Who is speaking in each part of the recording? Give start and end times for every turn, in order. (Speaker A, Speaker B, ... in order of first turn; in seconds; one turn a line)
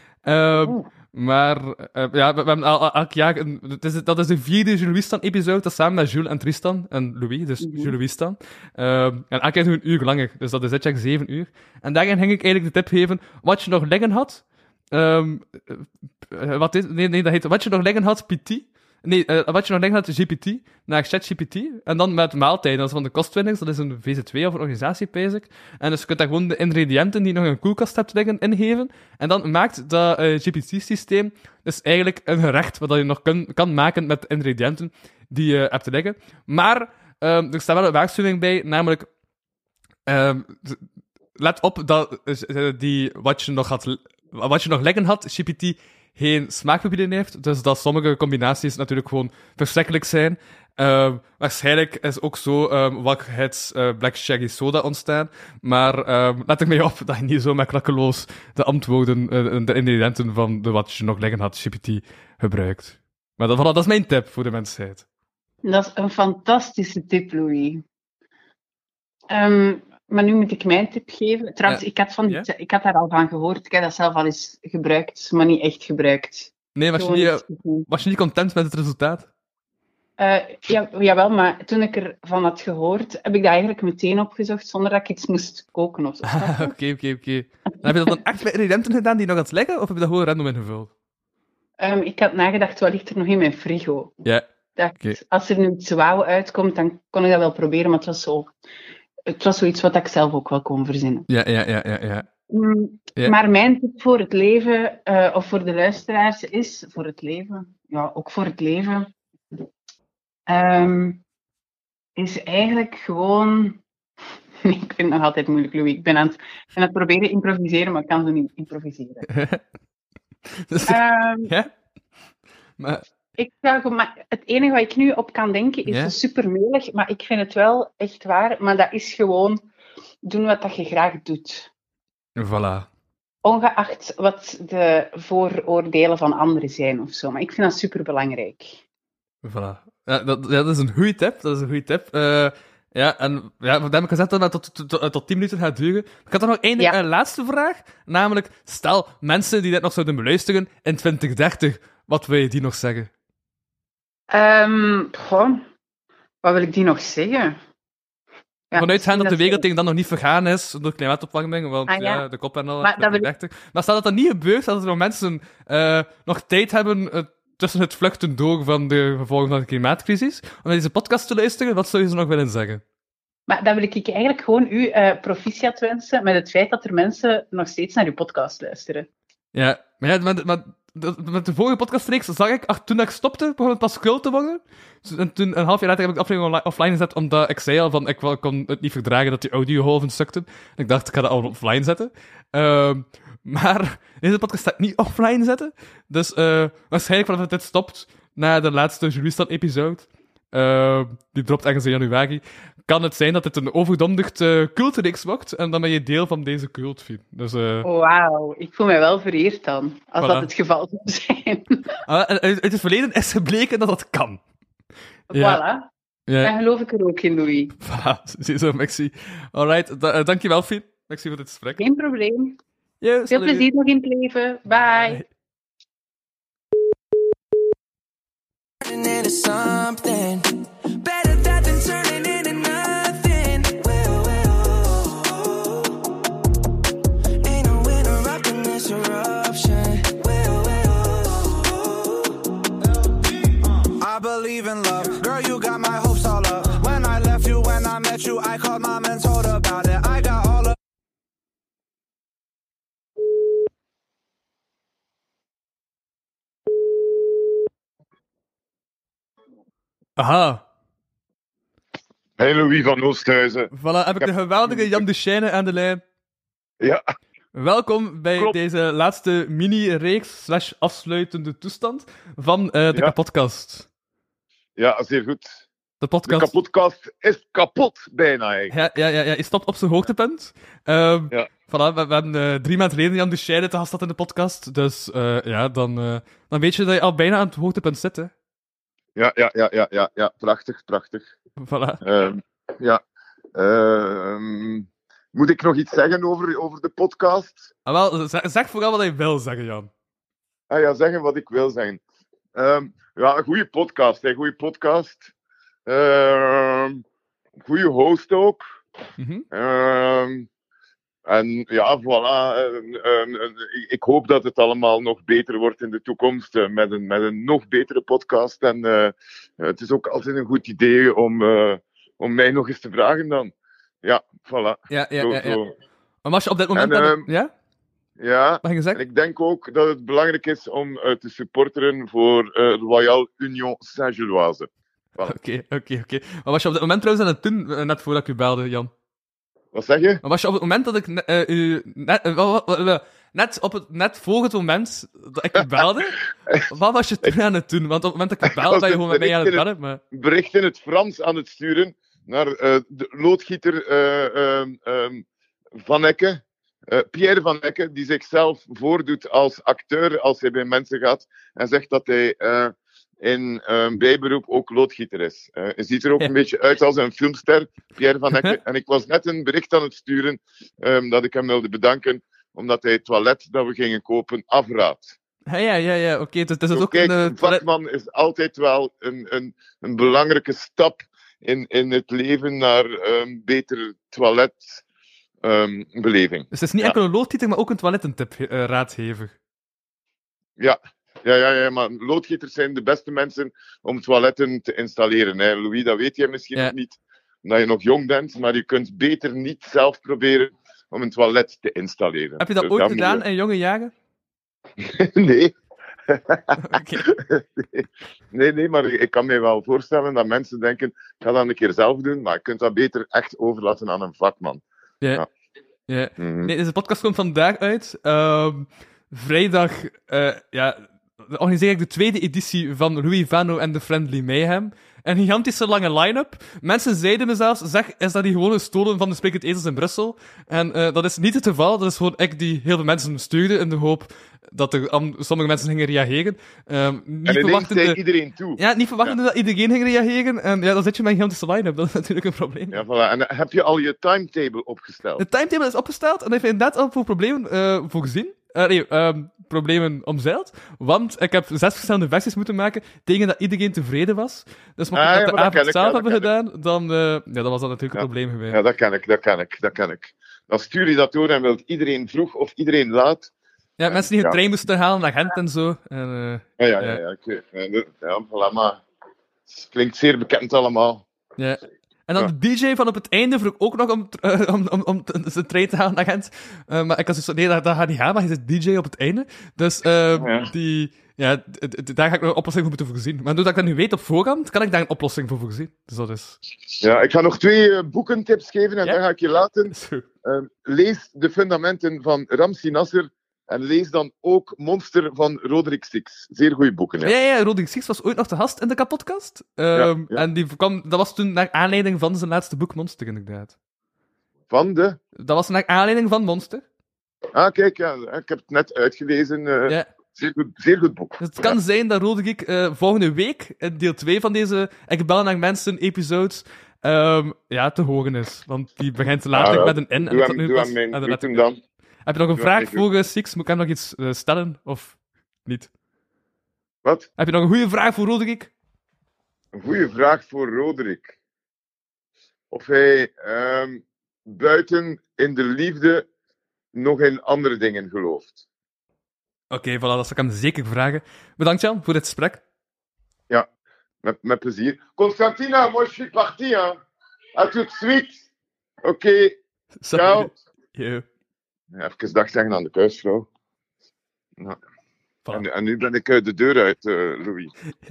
Speaker A: 0.2-39.1
Speaker B: 0.5-0.8
Speaker B: 7.6-7.9
Speaker A: 40.1-40.8
Speaker A: 41.4-65.0
Speaker B: 65.6-67.8
Speaker B: 69.3-77.9
Speaker A: 71.7-72.5
Speaker A: 76.8-79.3
Speaker B: 80.2-86.7
Speaker A: 86.2-90.9
Speaker B: 91.8-94.1
Speaker B: 94.8-98.5
Speaker B: 99.3-101.2
Speaker A: 101.3-102.3
Speaker B: 102.5-109.1
Speaker B: 110.5-111.2
Speaker B: 112.2-113.8
Speaker B: 114.6-119.3
Speaker A: 119.3-119.6
Speaker A: 120.6-121.7
Speaker B: 120.8-121.5
Speaker B: 123.4-129.6
Speaker A: 125.9-126.1
Speaker B: 130.2-131.7
Speaker A: 132.3-132.9
Speaker B: 133.4-138.8
Speaker A: 139.4-153.1
Speaker B: 154.3-155.6
Speaker B: 156.4-157.6
Speaker B: 158.7-159.6
Speaker A: 158.8-172.8
Speaker B: 161.9-162.2
Speaker B: 162.8-163.3
Speaker B: 173.5-179.1
Speaker A: 179.5-207.9
Speaker B: 207.8-211.8
Speaker A: 210.2-210.5
Speaker A: 212.1-214.4
Speaker B: 215.3-215.9
Speaker A: 215.3-215.6
Speaker A: 216.3-216.5
Speaker B: 216.4-217.7
Speaker A: 217.8-221.8
Speaker B: 221.8-222.6
Speaker A: 223.0-223.7
Speaker B: 223.3-225.2
Speaker A: 224.9-225.2
Speaker C: 228.8-236.2
Speaker C: 237.4-242.5
Speaker D: 244.0-250.8
Speaker A: 260.2-260.6
Speaker E: 262.4-265.0
Speaker A: 263.7-266.0
Speaker A: 267.5-273.9
Speaker E: 274.8-275.6
Speaker A: 276.0-276.5
Speaker E: 276.2-278.7
Speaker A: 278.7-288.3
Speaker E: 289.1-291.3
Speaker A: 291.6-292.0
Speaker E: 292.0-293.0
Speaker E: 293.5-297.7
Speaker A: 297.9-299.9
Speaker E: 300.7-302.0
Speaker E: 302.5-305.3
Speaker E: 305.9-307.0
Speaker E: 307.6-308.6
Speaker A: 309.2-309.4
Speaker E: 309.5-310.5
Speaker E: 311.2-325.7
Speaker A: 324.9-325.6
Speaker A: 326.2-327.5
Speaker E: 326.7-327.3
Speaker E: 328.2-335.3
Speaker A: 328.6-329.0
Speaker A: 335.2-338.9
Speaker E: 339.7-340.2
Speaker A: 340.2-350.0
Speaker E: 348.5-355.2
Speaker E: 355.8-375.1
Speaker A: 375.5-377.6
Speaker E: 376.7-384.8
Speaker E: 385.4-386.9
Speaker A: 386.5-389.3
Speaker E: 390.6-403.2
Speaker A: 402.4-403.9
Speaker E: 404.8-405.5
Speaker E: 406.1-406.6
Speaker A: 406.6-407.1
Speaker E: 407.1-414.6
Speaker A: 415.9-438.0
Speaker E: 416.2-416.5
Speaker E: 437.2-439.1
Speaker A: 438.6-442.8
Speaker E: 442.7-445.2
Speaker A: 445.2-458.6
Speaker E: 454.9-456.3
Speaker E: 457.9-463.3
Speaker A: 463.8-467.0
Speaker E: 463.9-464.4
Speaker E: 466.6-468.8
Speaker E: 469.5-471.0
Speaker A: 471.4-486.4
Speaker E: 480.1-480.5
Speaker E: 486.8-497.1
Speaker A: 489.7-490.1
Speaker A: 497.0-503.5
Speaker E: 499.7-500.2
Speaker E: 504.5-505.0
Speaker A: 505.1-506.6
Speaker E: 507.3-511.6
Speaker A: 511.2-521.4
Speaker E: 519.3-521.6
Speaker A: 522.0-525.7
Speaker E: 522.3-522.8
Speaker A: 527.2-528.5
Speaker E: 529.5-531.1
Speaker E: 532.5-536.1
Speaker E: 536.7-538.4
Speaker A: 539.5-542.4
Speaker E: 544.0-546.8
Speaker E: 547.3-548.2
Speaker E: 548.8-549.4
Speaker A: 549.8-551.0
Speaker E: 549.9-550.3
Speaker E: 551.7-553.3
Speaker E: 555.3-557.5